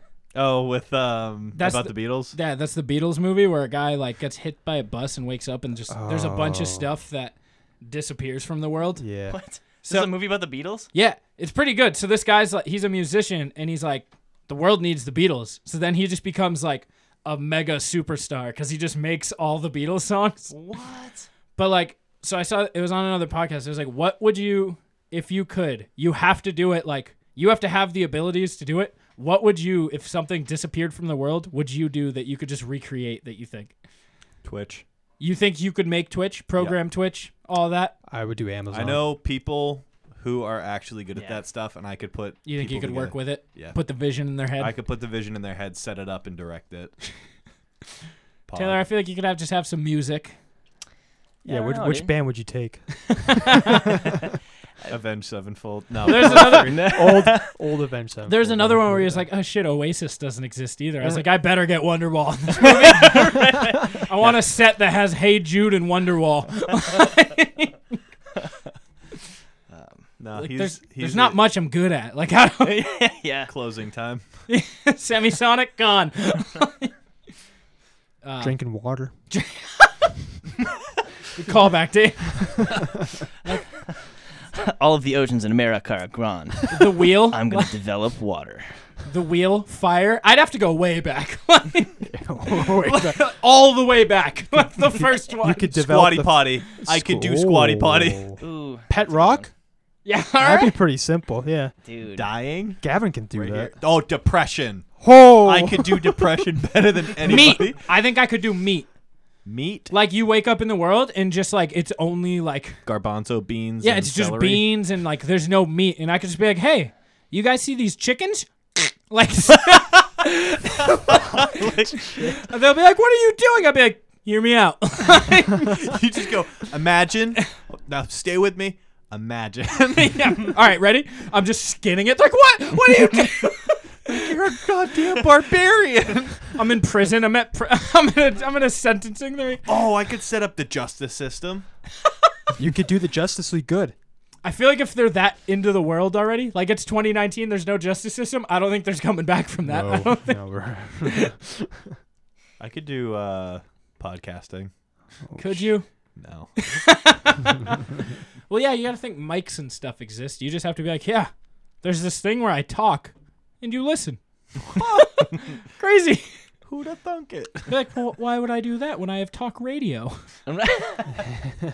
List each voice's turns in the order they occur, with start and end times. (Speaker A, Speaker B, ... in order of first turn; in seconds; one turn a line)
Speaker A: 0.3-2.4
Speaker B: 1.5-9.0
Speaker C: 5.9-6.9
Speaker C: 9.0-9.4
Speaker D: 9.3-10.9
Speaker B: 9.8-10.1
Speaker B: 10.9-20.5
Speaker D: 20.5-21.3
Speaker B: 21.6-33.7
Speaker A: 34.4-34.8
Speaker B: 35.2-37.9
Speaker C: 38.1-39.1
Speaker A: 38.7-43.8
Speaker D: 41.1-41.4
Speaker B: 42.4-44.7
Speaker A: 44.6-47.0
Speaker A: 48.5-48.9
Speaker B: 48.5-50.4
Speaker C: 51.4-54.0
Speaker D: 51.4-52.1
Speaker B: 53.3-53.8
Speaker A: 54.9-56.9
Speaker B: 56.0-56.8
Speaker D: 56.5-57.5
Speaker C: 56.8-59.2
Speaker B: 58.2-67.7
Speaker D: 62.9-63.9
Speaker D: 69.7-70.0
Speaker A: 70.2-71.4
Speaker B: 70.3-72.9
Speaker D: 72.6-73.5
Speaker A: 73.5-74.2
Speaker B: 74.5-76.9
Speaker B: 78.2-78.6
Speaker C: 78.4-79.1
Speaker B: 79.3-79.9
Speaker B: 81.3-82.8
Speaker D: 84.5-88.7
Speaker B: 86.7-87.7
Speaker B: 89.1-95.7
Speaker C: 92.0-93.2
Speaker C: 94.9-99.5
Speaker A: 95.7-98.2
Speaker D: 98.4-99.5
Speaker B: 100.0-100.8
Speaker C: 100.4-101.7
Speaker D: 101.8-102.3
Speaker A: 102.1-107.8
Speaker C: 102.8-103.7
Speaker C: 105.0-106.4
Speaker B: 107.2-108.9
Speaker A: 109.4-109.9
Speaker B: 109.9-112.8
Speaker A: 112.8-114.7
Speaker B: 113.8-121.4
Speaker A: 121.1-122.3
Speaker B: 122.1-126.0
Speaker A: 125.7-130.6
Speaker B: 129.9-134.2
Speaker A: 134.1-136.5
Speaker B: 136.6-139.6
Speaker A: 139.6-141.7
Speaker C: 142.6-143.9
Speaker B: 144.4-150.4
Speaker C: 149.6-152.0
Speaker B: 151.0-151.3
Speaker A: 152.6-154.7
Speaker C: 155.3-155.7
Speaker B: 155.4-155.9
Speaker A: 156.2-156.7
Speaker B: 156.6-157.8
Speaker B: 158.5-161.3
Speaker B: 161.8-164.2
Speaker A: 164.7-165.3
Speaker B: 164.7-166.3
Speaker A: 166.7-167.7
Speaker B: 167.7-170.2
Speaker D: 170.4-171.2